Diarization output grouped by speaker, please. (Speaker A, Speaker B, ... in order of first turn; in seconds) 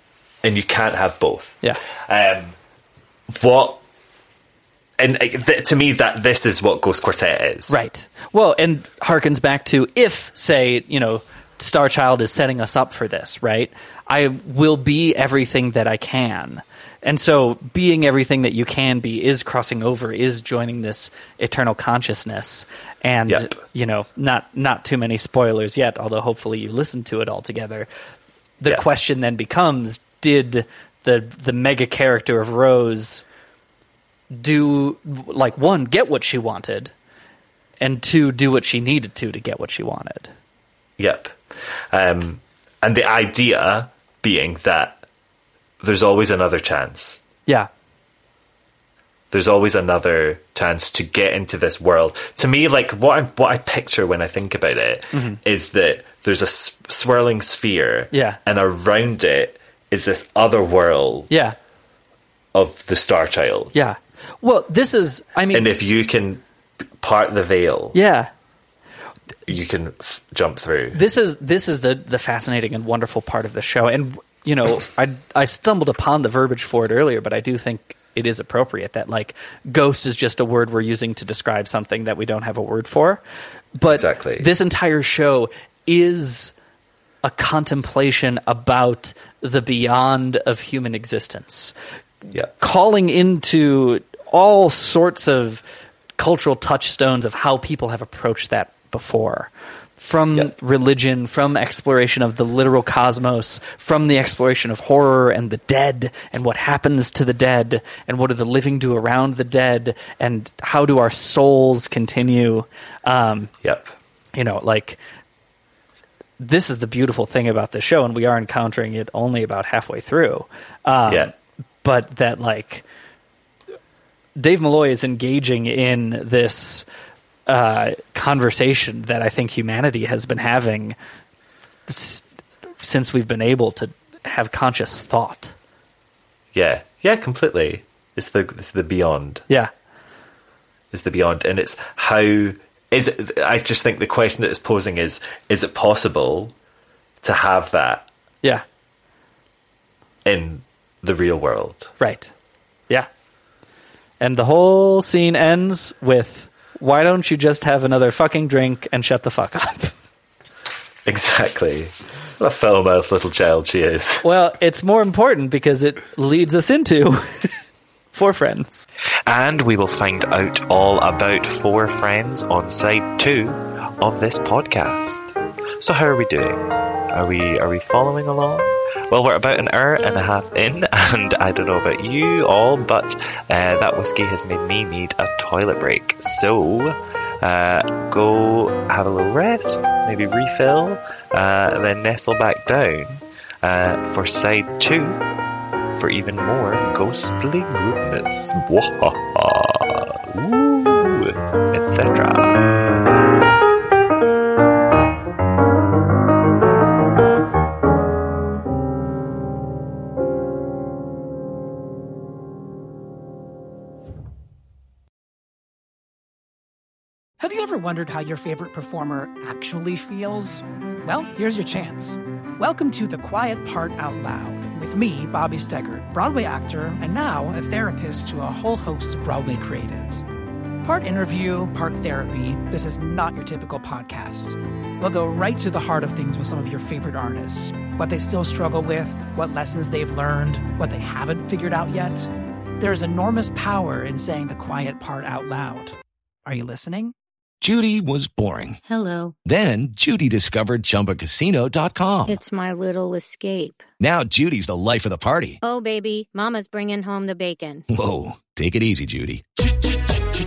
Speaker A: 0.4-2.5, 3.3-3.8, 5.0-7.7, 23.3-23.6, 41.0-41.4, 41.9-45.0, 45.8-47.2, 49.3-61.3, 62.5-63.7, 65.5-66.4, 67.0-68.0, 69.5-71.0, 83.9-84.5, 113.6-113.9, 136.6-139.5, 140.9-146.5, 147.2-148.1, 150.2-151.9, 161.1-164.2
Speaker B: 7.7-27.9, 28.6-33.2, 34.3-36.9, 37.8-40.3, 55.1-55.4, 58.1-58.4, 61.3-61.6, 63.7-65.7, 67.9-68.3, 70.9-83.2, 83.8-86.5, 87.2-91.7, 92.6-95.6, 96.2-113.5, 114.3-115.0, 116.4-121.3, 121.8-122.8, 124.4-126.9, 127.5-131.0, 131.9-132.2, 132.8-135.5, 152.0-152.3, 154.2-159.9, 164.2-167.5, 168.1-168.9
Speaker C: 169.3-195.2, 196.0-202.6
Speaker D: 217.4-230.3, 230.8-242.3, 242.8-247.1
Speaker E: 247.6-248.8, 249.4-252.4, 254.0-255.6, 257.9-259.4
Speaker F: 248.9-249.3, 252.3-253.8, 255.6-257.8